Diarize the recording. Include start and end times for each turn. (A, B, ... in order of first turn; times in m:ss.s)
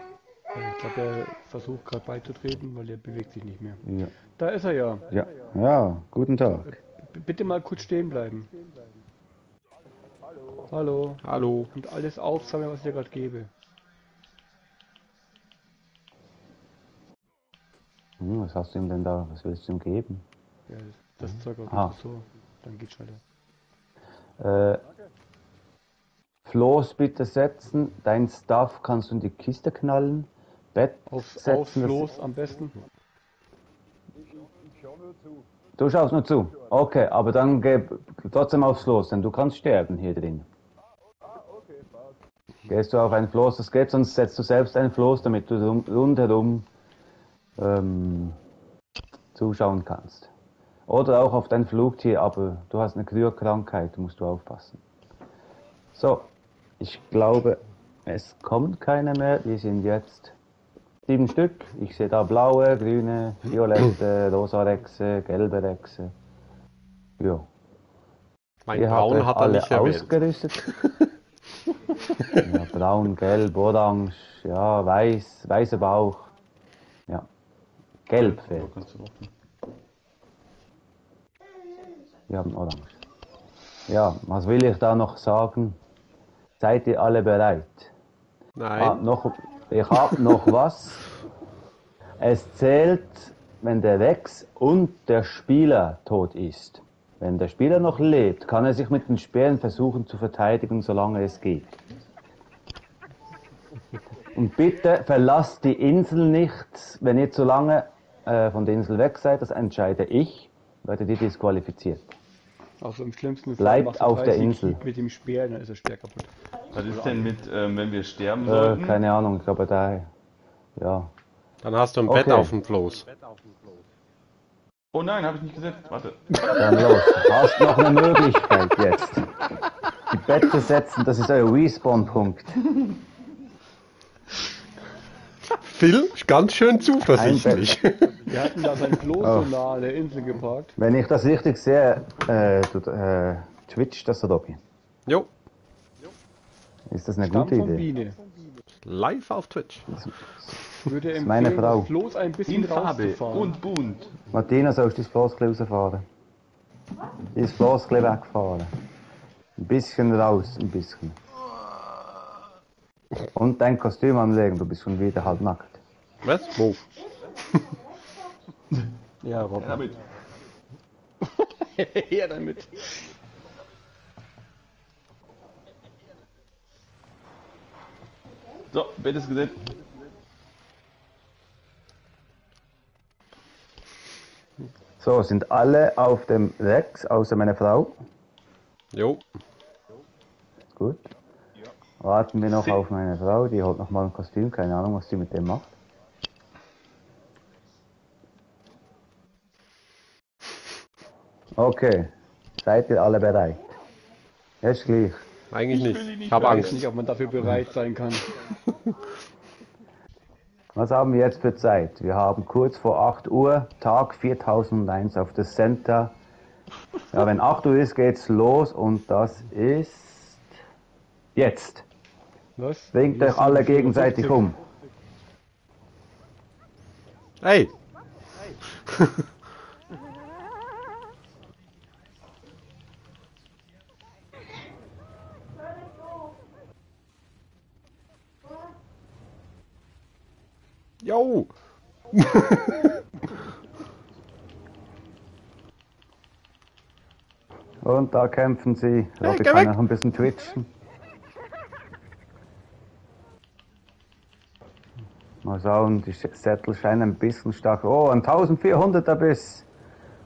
0:00.5-0:03.8 A
0:03.8-0:04.1 B
0:04.4-0:05.1 A
0:05.1-0:06.7 B
0:06.6-0:08.5 A
0:10.7-0:13.5 A
0:11.2-0:11.7 C
0:18.2-0:20.2 B
0:20.7-0:23.2 A
0:24.4-0:24.8 B
0:26.4-0:32.1 B
0:31.1-0:32.8 A
0:35.8-0:40.5 B
0:42.7-0:46.7 B
0:47.6-0:48.4 B
0:49.3-0:50.3 B
0:50.9-0:54.8 B
0:55.9-0:56.3 B
0:56.8-1:00.4 B
1:01.1-1:06.1 B
1:07.2-1:07.5 B
1:08.7-1:10.1 C
1:08.7-1:10.6 B
1:12.3-1:16.3 B
1:18.1-1:18.7 B
1:18.1-1:19.3 D
1:22.3-1:23.0 B
1:23.9-1:25.8 B
1:26.6-1:27.9 B
1:28.6-1:29.0 C
1:28.8-1:31.0 B
1:32.2-1:41.8 B
1:44.3-1:52.1 B
1:52.8-1:56.3 A
1:53.6-1:54.8 B
1:56.7-1:59.0 D
1:58.4-2:00.1 B
2:00.8-2:01.1 B
2:01.6-2:03.1 C
2:02.1-2:02.5 B
2:04.9-2:07.1 D
2:06.5-2:09.3 B
2:10.1-2:12.6 B
2:15.6-2:18.2 C
2:17.2-2:17.8 B
2:18.3-2:20.8 A
2:19.2-2:19.5 B
2:20.8-2:24.6 B
2:26.9-2:27.9 B
2:27.2-2:28.2 A
2:28.8-2:29.9 C
2:30.0-2:30.5 B
2:30.8-2:33.6 A
2:31.2-2:31.9 B
2:32.5-2:34.2 D
2:34.3-2:36.1 B
2:37.3-2:38.7 B
2:39.6-2:41.2 B
2:43.3-2:45.8 B
2:46.2-2:46.8 C
2:49.2-2:49.9 A
2:49.6-2:50.0 D
2:51.2-2:53.1 A
2:58.7-2:59.7 D
3:05.0-3:08.0 B
3:08.9-3:09.2 C
3:10.8-3:11.1 B
3:12.0-3:15.7 B
3:21.6-3:23.6 B
3:24.6-3:25.2 B
3:25.5-3:26.8 C
3:25.7-3:26.9 D
3:26.4-3:28.3 A
3:30.8-3:36.2 B
3:37.1-3:40.4 B
3:41.4-3:41.8 B
3:42.6-3:44.5 A
3:42.9-3:44.6 B
3:47.4-3:47.7 C
3:48.9-3:49.2 C
4:01.0-4:01.5 C
4:02.1-4:02.8 C
4:07.8-4:10.7 B
4:09.2-4:09.7 C
4:15.4-4:19.7 B